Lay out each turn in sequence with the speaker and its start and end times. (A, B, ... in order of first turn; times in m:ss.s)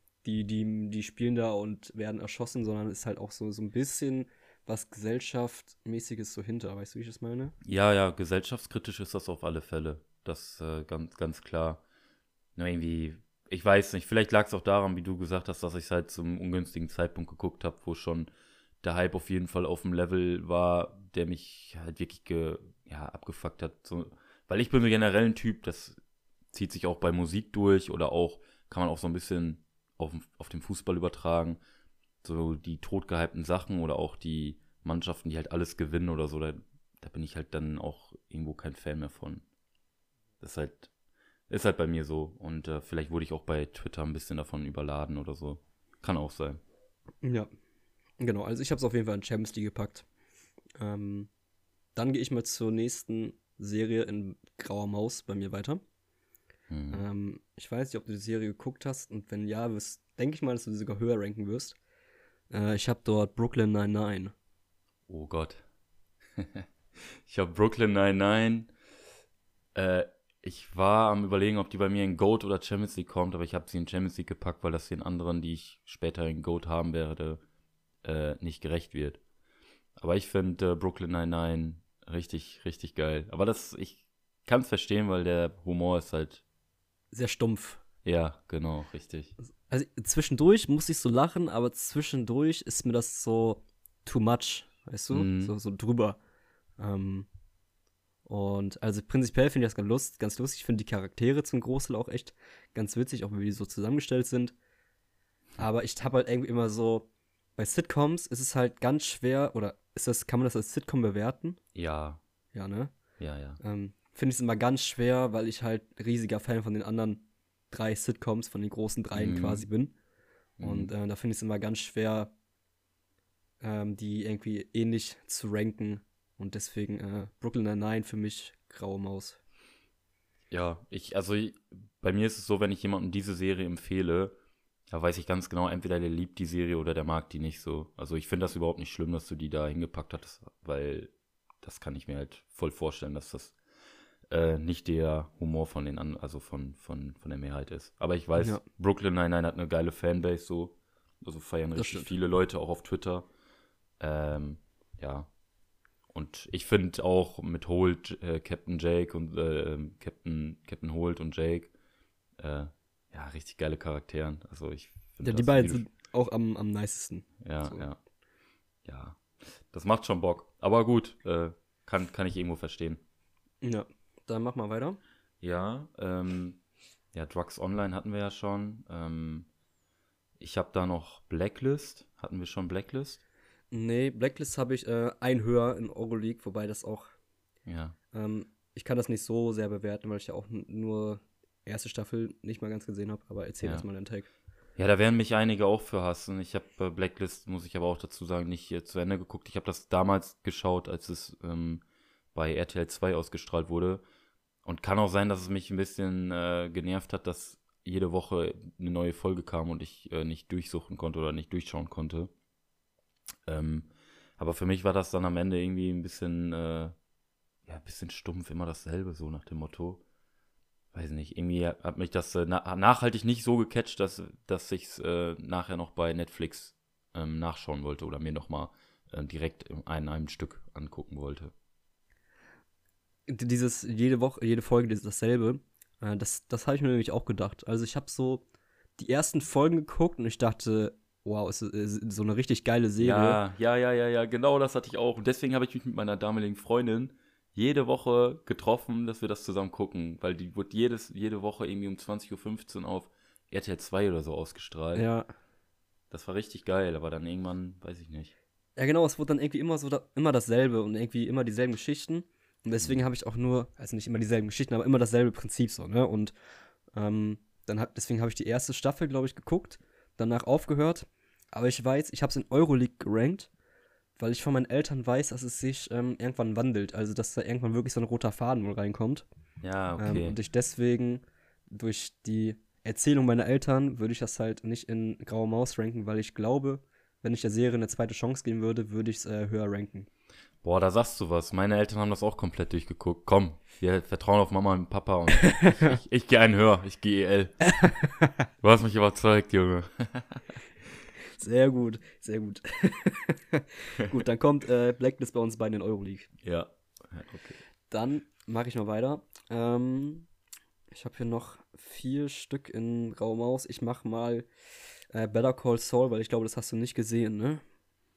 0:00.2-0:07.5 A
0:07.6-0:11.8 B
0:12.6-0:18.3 B
0:18.8-0:26.0 B
0:26.5-0:31.6 B
0:32.2-0:39.4 B
0:40.4-0:40.9 B
0:41.5-0:46.6 B
0:47.2-0:47.5 A
0:48.2-0:50.1 A
0:50.8-0:51.3 A
0:52.0-0:55.8 A
0:56.7-0:57.1 B
0:56.9-1:01.8 A
1:02.5-1:04.3 A
1:05.1-1:05.6 B
1:06.4-1:08.7 B
1:09.8-1:17.4 B
1:18.0-1:19.2 B
1:20.0-1:26.4 B
1:27.1-1:27.8 A
1:28.0-1:29.3 B
1:29.7-1:36.2 A
1:35.1-1:35.5 B
1:36.8-1:37.3 A
1:38.3-1:44.6 A
1:45.6-1:51.6 A
1:51.8-1:52.2 B
1:52.5-1:52.9 A
1:53.2-1:53.6 B
1:53.6-1:59.9 A
1:59.2-1:59.7 B
2:00.6-2:00.9 B
2:00.6-2:02.3 A
2:03.6-2:09.4 A
2:10.5-2:14.4 B
2:14.9-2:21.1 B
2:21.6-2:23.6 B
2:24.3-2:33.3 B
2:31.8-2:32.1 A
2:34.0-2:35.3 B
2:36.1-2:41.7 B
2:42.4-2:45.9 B
2:45.2-2:47.9 A
2:47.4-2:48.0 B
2:48.8-2:53.0 B
2:53.6-2:55.0 A
2:55.4-2:56.6 B
2:57.1-2:59.5 B
3:00.4-3:03.2 B
3:03.7-3:07.1 A
3:07.7-3:08.0 B
3:08.1-3:14.3 A
3:14.8-3:21.8 B
3:22.3-3:24.0 B
3:24.6-3:32.3 B
3:33.5-3:36.9 B
3:37.7-3:40.0 B
3:40.9-3:51.5 B
3:53.3-3:58.4 A
3:59.0-4:03.4 A
4:03.0-4:15.1 B
4:15.0-4:15.3 A
4:16.1-4:18.3 B
4:18.8-4:26.3 A
4:26.9-4:33.5 A
4:34.2-4:39.3 A
4:39.6-4:40.4 B
4:40.0-4:50.1 A
4:50.6-4:57.6 B
4:55.5-4:55.7 A
4:57.7-4:58.3 A
4:58.6-5:00.4 B
5:01.4-5:06.3 A
5:06.4-5:07.6 B
5:07.9-5:10.3 A
5:10.9-5:14.5 A
5:15.1-5:17.6 A